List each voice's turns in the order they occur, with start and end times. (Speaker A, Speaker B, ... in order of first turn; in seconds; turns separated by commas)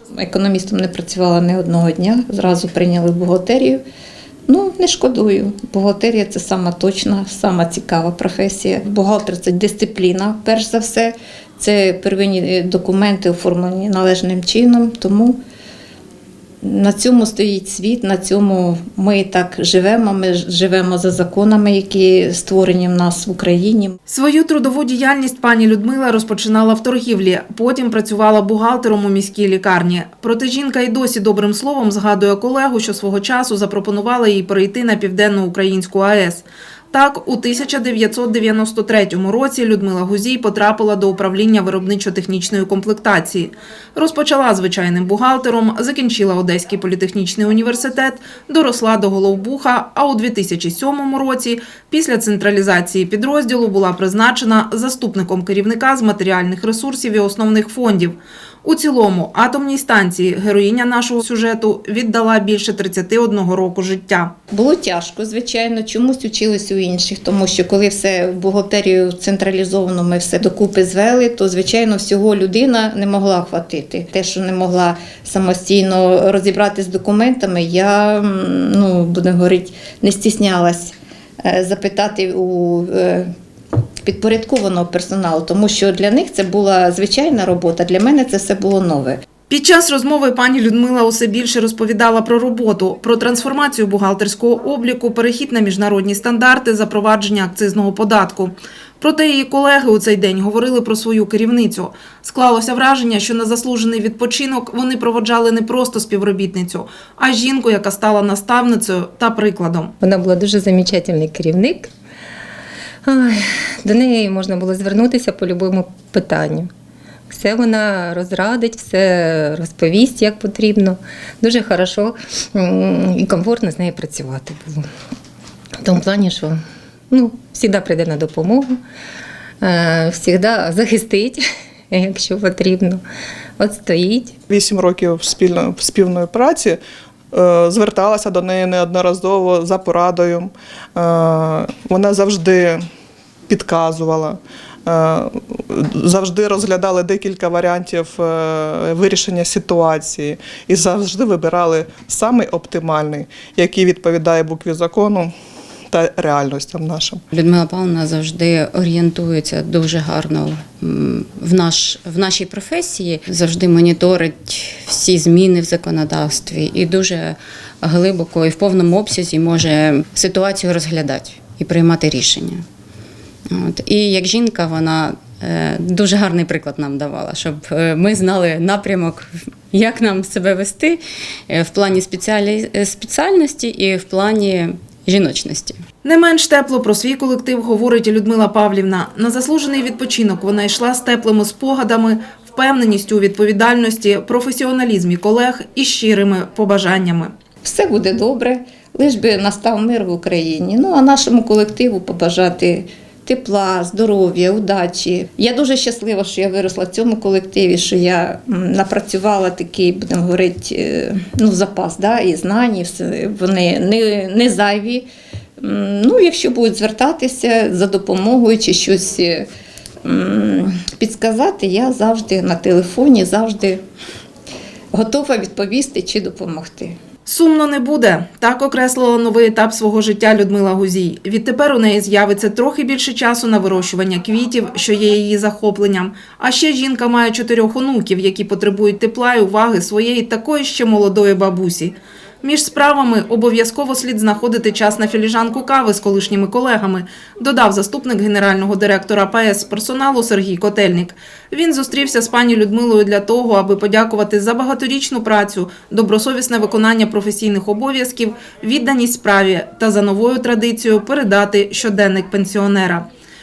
Speaker A: 0.1-3.8, Speaker A: 4.5-15.4, Speaker A: 16.6-23.9, Speaker B: 24.1-64.3, Speaker A: 64.5-83.3, Speaker A: 84.0-89.2, Speaker B: 89.5-109.9, Speaker C: 110.0-111.9, Speaker C: 113.0-116.7, Speaker C: 117.3-124.9, Speaker C: 125.8-126.6, Speaker C: 127.1-128.8, Speaker C: 129.6-133.0, Speaker C: 133.6-134.3, Speaker D: 134.5-136.8, Speaker D: 137.3-142.8, Speaker D: 143.5-155.3, Speaker D: 155.9-157.2, Speaker E: 157.3-172.6, Speaker E: 173.5-185.8, Speaker B: 186.0-197.3, Speaker A: 197.6-215.1, Speaker A: 215.6-219.5, Speaker A: 220.0-223.8, Speaker A: 224.9-226.9, Speaker B: 227.2-263.1